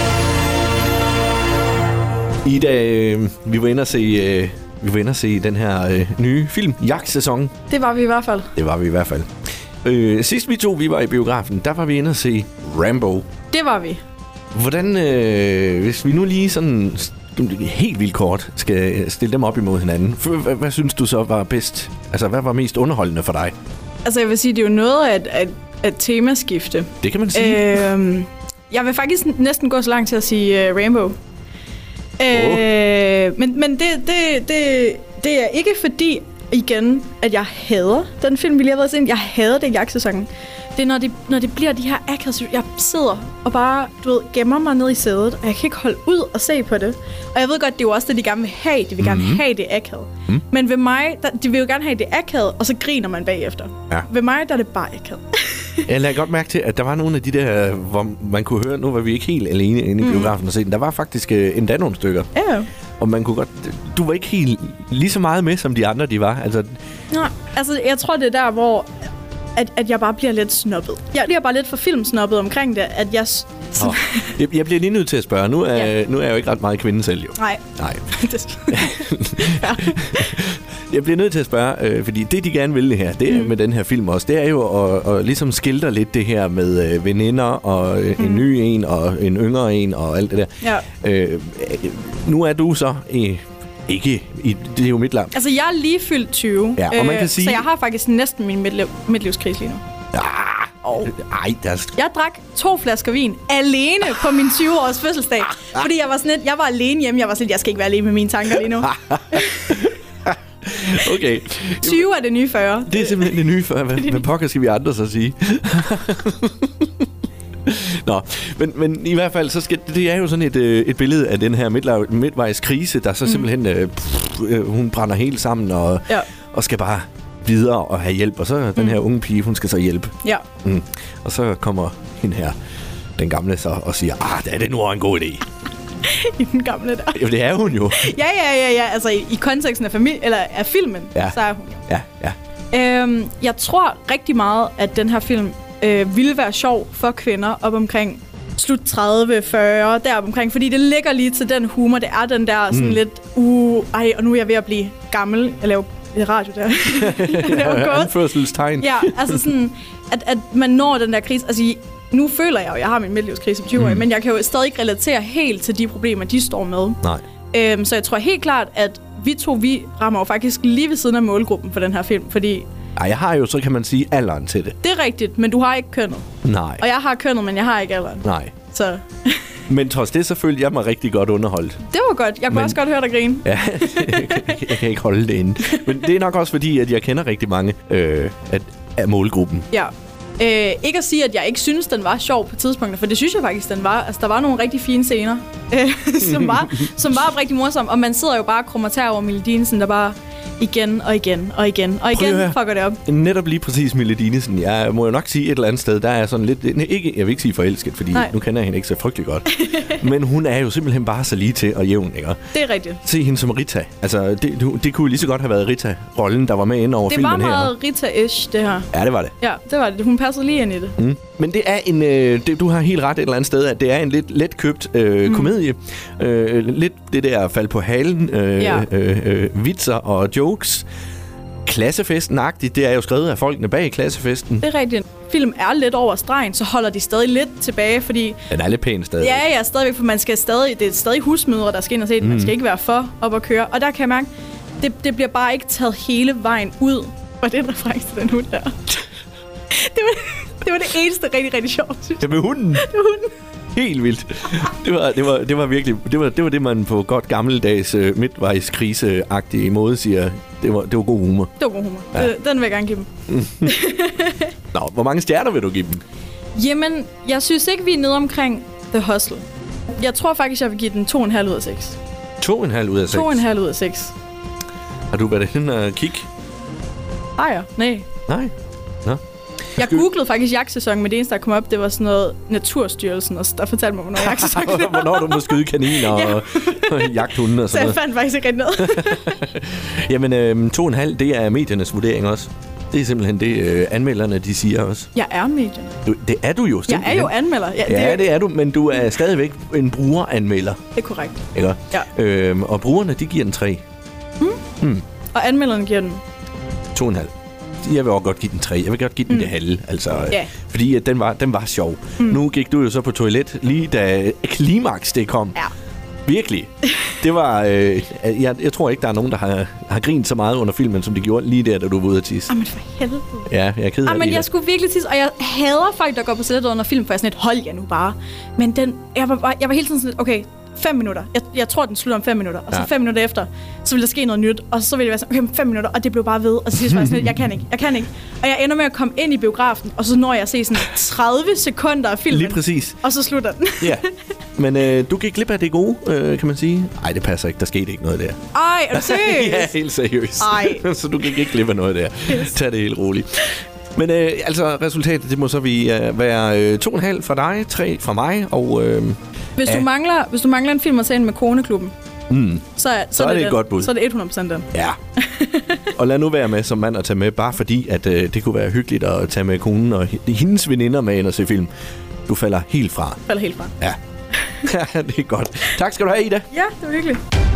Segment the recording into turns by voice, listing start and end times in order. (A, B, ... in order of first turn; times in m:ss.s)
0:02.4-0:07.5 A
0:07.7-0:08.5 B
0:08.6-0:09.3 A
0:09.8-0:13.3 A
0:13.5-0:14.0 B
0:14.5-0:23.5 A
0:24.0-0:31.2 B
0:27.0-0:27.8 A
0:32.2-0:55.9 B
0:32.3-0:32.7 A
0:49.0-0:49.4 A
0:55.8-1:02.3 A
1:00.0-1:00.4 B
1:02.3-1:02.7 B
1:03.0-1:06.7 A
1:07.1-1:08.9 B
1:09.6-1:14.4 B
1:13.8-1:18.1 A
1:17.4-1:20.4 B
1:18.7-1:35.4 A
1:23.3-1:23.5 B
1:28.2-1:28.5 B
1:30.6-1:30.9 B
1:35.3-1:39.8 B
1:36.8-1:37.7 A
1:40.1-1:41.9 A
1:41.9-1:49.9 B
1:48.8-1:52.1 A
1:51.8-1:53.5 B
1:52.9-1:57.1 A
1:57.6-2:12.6 A
2:13.2-2:15.4 A
2:16.0-2:17.2 B
2:17.1-2:18.1 A
2:17.9-2:21.8 B
2:21.2-2:22.4 A
2:22.7-2:38.2 B
2:32.7-2:33.0 A
2:36.8-2:39.4 A
2:38.8-2:52.7 B
2:43.8-2:44.0 A
2:53.0-2:54.8 A
2:54.8-2:59.5 B
2:56.4-2:56.8 A
2:58.2-2:58.5 A
2:59.7-3:01.8 A
3:01.8-3:04.8 B
3:02.5-3:02.8 A
3:03.4-3:09.7 A
3:05.7-3:06.0 B
3:09.7-3:23.0 B
3:16.3-3:16.9 A
3:22.1-3:32.5 A
3:29.6-3:30.0 B
3:32.5-3:33.0 B
3:33.0-3:37.7 A
3:37.1-3:41.0 B
3:38.9-3:39.3 A
3:41.0-3:50.9 A
3:48.6-3:48.9 B
3:51.6-3:54.7 A
3:54.6-3:58.4 B
3:58.5-3:59.4 A
3:59.2-4:04.3 B
4:02.2-4:02.5 A
4:04.8-4:09.0 B
4:09.7-4:13.3 B
4:12.2-4:12.9 A
4:13.7-4:21.5 A
4:21.6-4:24.5 B
4:23.3-4:23.7 A
4:24.7-4:26.0 A
4:26.6-4:32.0 B
4:32.4-4:33.4 A
4:33.1-4:34.2 B
4:35.1-4:36.3 A
4:37.4-4:38.1 B
4:38.3-4:38.5 A
4:39.8-4:49.4 B
4:39.8-4:40.0 A
4:44.2-4:48.0 A
4:48.8-4:55.1 A
4:55.1-4:56.0 B
4:56.0-5:00.8 A
4:56.9-4:58.3 B
5:00.9-5:02.1 B
5:01.5-5:03.8 A
5:05.3-5:06.2 B
5:06.9-5:15.6 A
5:09.3-5:09.5 B
5:16.3-5:22.5 A
5:22.5-5:23.5 B
5:23.5-5:24.5 A
5:24.0-5:44.1 B
5:36.8-5:37.3 A
5:42.3-5:43.0 A
5:43.8-5:44.0 A
5:44.6-5:48.4 A
5:48.5-5:49.7 B
5:48.9-5:59.9 A
5:50.4-5:50.9 B
5:59.6-6:01.9 B
6:02.3-6:03.9 A
6:02.8-6:05.9 B
6:05.9-6:11.7 A
6:12.3-6:13.2 A
6:13.3-6:13.8 B
6:14.6-6:16.5 A
6:16.5-6:17.2 B